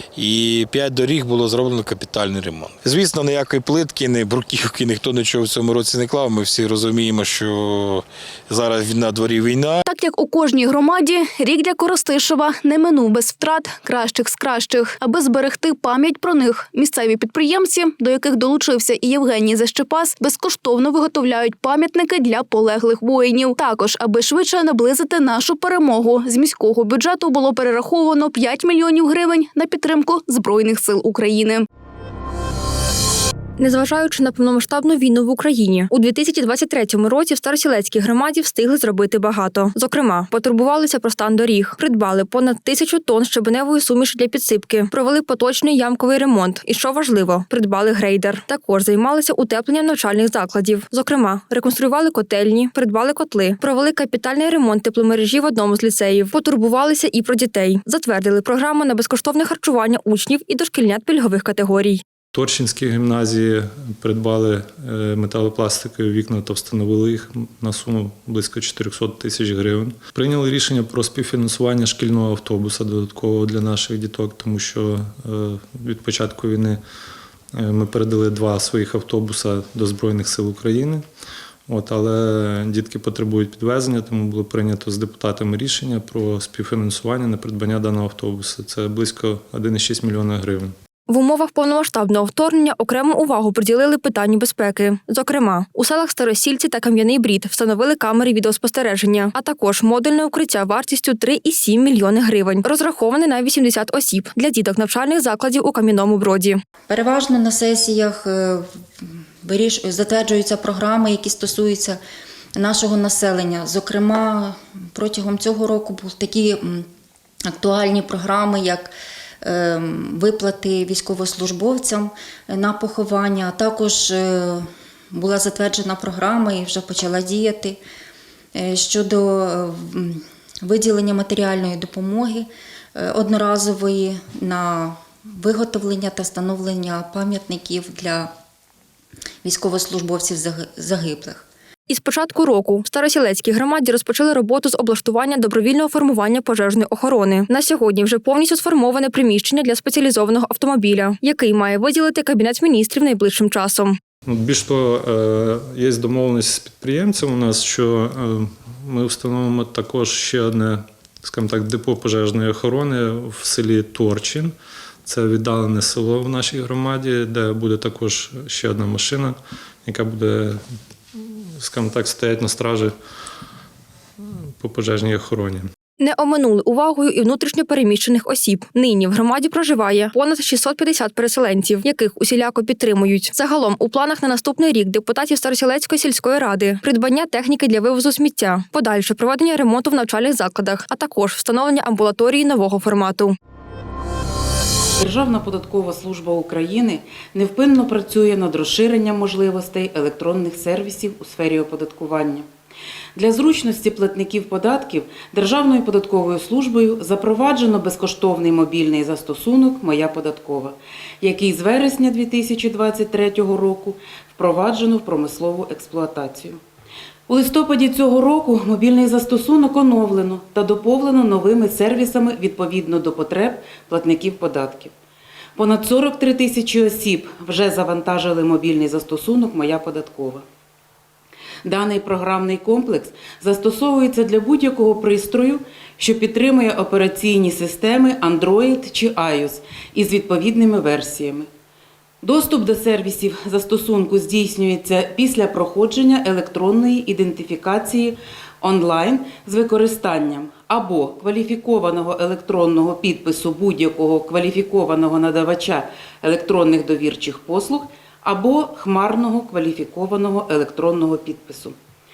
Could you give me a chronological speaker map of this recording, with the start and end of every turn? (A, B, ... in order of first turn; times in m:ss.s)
0:00.1-0:09.8 A
0:09.8-0:31.6 B
0:33.6-1:02.0 C
1:02.3-1:16.8 D
1:17.5-1:21.0 D
1:21.7-1:30.7 D
1:31.1-1:46.6 C
1:46.9-1:52.0 E
1:52.6-1:56.9 E
1:57.5-2:07.8 E
2:08.5-2:18.3 E
2:19.4-2:21.4 E
2:21.9-2:34.0 C
2:34.2-2:44.5 D
2:45.0-2:50.6 D
2:51.2-2:52.9 D
2:54.2-2:55.7 D
2:56.0-3:13.4 C
3:15.0-3:22.5 F
3:23.2-3:36.6 F
3:37.3-3:44.9 F
3:45.6-3:50.4 F
3:51.6-4:01.5 F
4:02.2-4:21.8 F